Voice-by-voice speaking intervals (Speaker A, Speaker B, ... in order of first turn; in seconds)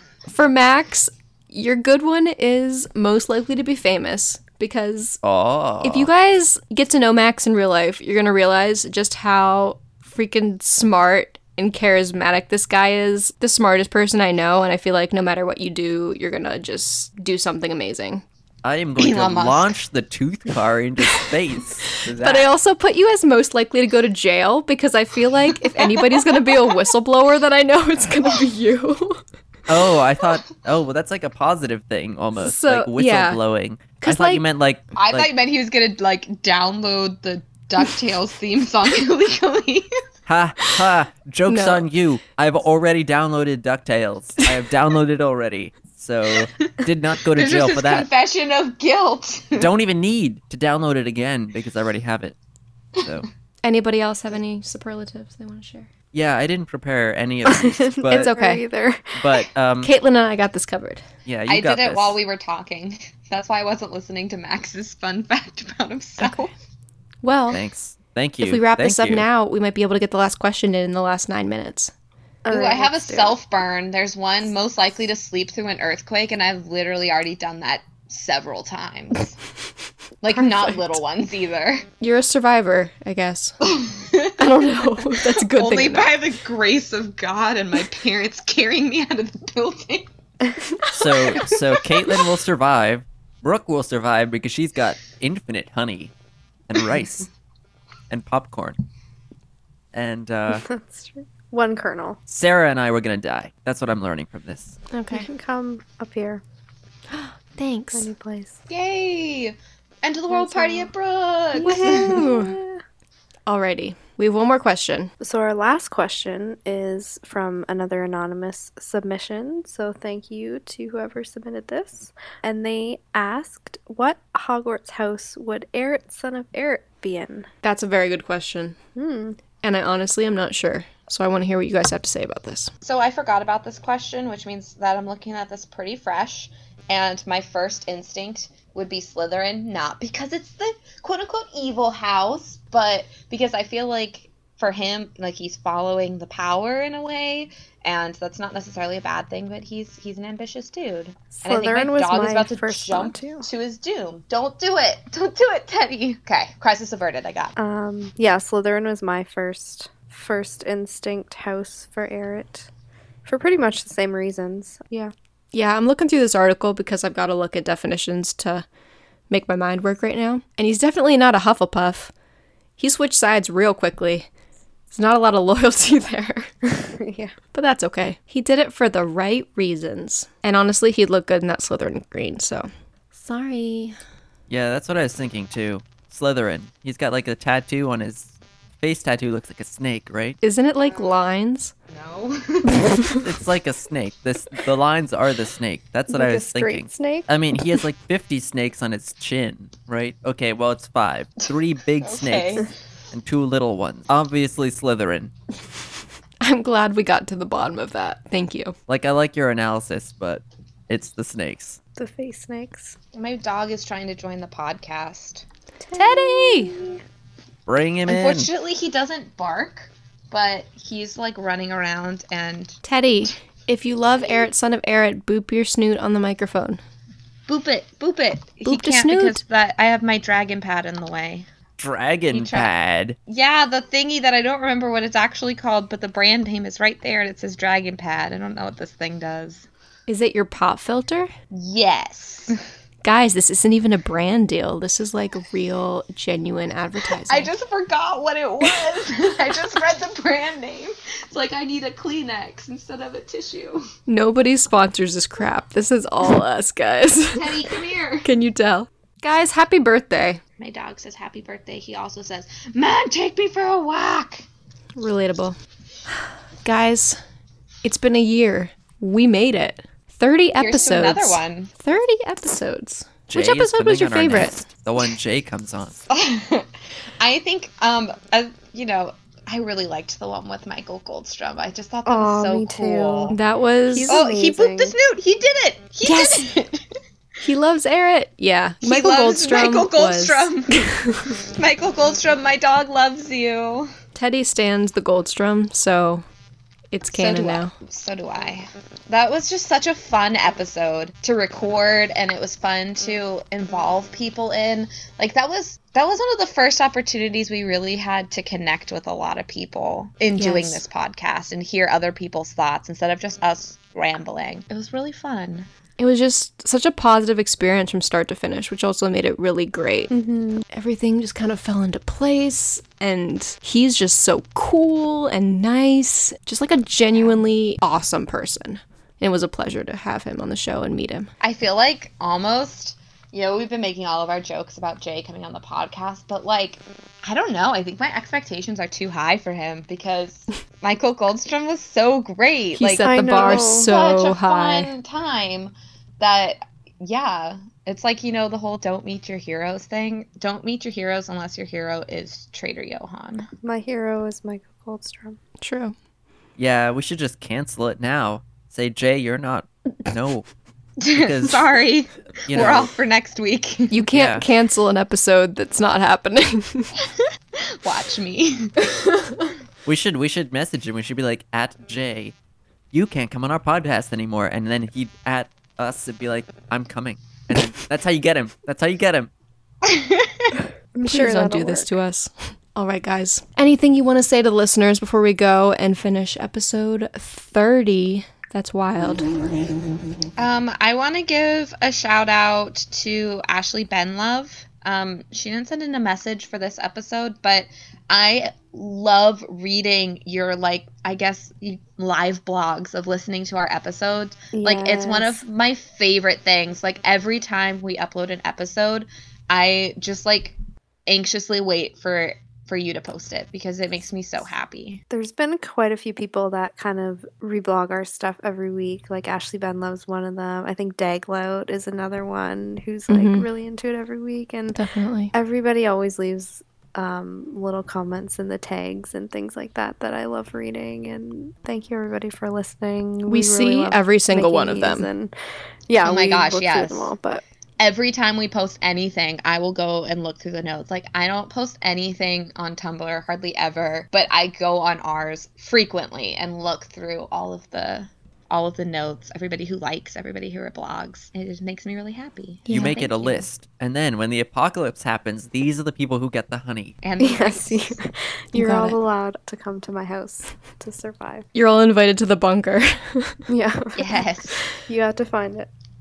Speaker A: 0.3-5.2, 5.8-18.2, 22.1-29.2, 32.4-33.4, 34.0-34.4, 41.5-41.9, 53.6-55.9, 58.1-58.6, 59.8-61.0, 67.2-67.6, 68.4-71.9, 82.0-83.6, 84.4-86.1, 104.9-105.3, 107.1-108.1, 111.6-112.6, 113.5-115.1, 127.6-128.8, 129.6-132.7, 165.5-168.6, 169.3-172.1, 172.8-174.3, 174.9-176.5, 177.5-183.9, 190.4-191.7, 192.9-193.2, 206.4-208.7, 215.9-216.8, 222.8-226.8, 228.6-229.4, 240.1-241.3, 243.0-247.5, 254.1-257.6, 258.2-260.4, 264.9-265.6, 266.6-267.2, 267.8-274.6, 283.3-284.2, 286.0-286.5, 287.4-291.3, 294.1-296.2, 296.9-297.7, 310.4-310.8, 316.0-320.1, 320.7-331.3, 342.8-344.9, 355.6-355.9, 363.9-366.9, 381.1-389.3, 423.1-423.4, 424.7-425.3, 433.3-435.1, 452.7-453.1, 458.5-459.0, 461.5-463.4
Speaker B: 5.2-6.1, 18.6-22.5, 29.7-35.3, 40.3-48.1, 49.5-52.4, 53.0-53.3, 56.1-58.3, 59.1-59.9, 61.3-62.2, 67.5-69.3, 90.9-96.1, 96.7-97.3, 98.1-98.8, 99.9-100.6, 102.3-104.8, 184.5-190.4, 193.2-205.3, 208.9-211.8, 217.7-218.5, 231.8-233.2, 273.3-276.0, 356.6-360.5, 361.1-361.6, 362.5-362.9, 364.1-364.4, 369.9-372.4, 372.9-379.3, 452.7-456.9
Speaker C: 19.0-19.8, 25.6-26.8, 35.0-39.9, 47.3-49.7, 61.5-66.5, 72.5-79.4, 80.2-81.9, 83.7-90.1, 108.7-112.3, 132.8-157.5, 191.9-193.0, 202.0-202.7, 213.1-215.4, 218.1-222.8, 227.5-231.5, 232.3-232.7, 233.3-239.7, 241.5-242.6, 247.3-253.8, 257.3-258.3, 260.6-264.4, 270.6-271.7, 276.1-276.7, 277.2-283.4, 284.1-286.9, 288.8-291.0, 291.5-293.9, 297.0-315.7, 331.4-353.5, 361.0-364.1, 367.0-368.9, 379.8-380.5, 390.4-415.0, 436.0-437.1, 437.8-453.4, 457.0-458.0, 463.9-464.6
Speaker D: 57.5-59.4, 72.5-73.4, 100.5-102.2, 105.1-106.4, 107.9-108.6, 110.4-110.8, 111.5-112.8, 115.2-127.5, 128.9-129.4, 151.3-153.4, 157.6-162.7, 163.3-165.1, 176.7-177.3, 196.1-197.3, 212.0-212.9, 215.8-217.0, 282.1-284.9, 320.1-320.6, 343.0-343.9, 353.6-355.4, 380.9-381.9, 404.5-405.4, 415.1-424.8, 425.3-435.3, 435.9-437.4, 457.2-461.5, 463.5-464.2, 464.9-465.7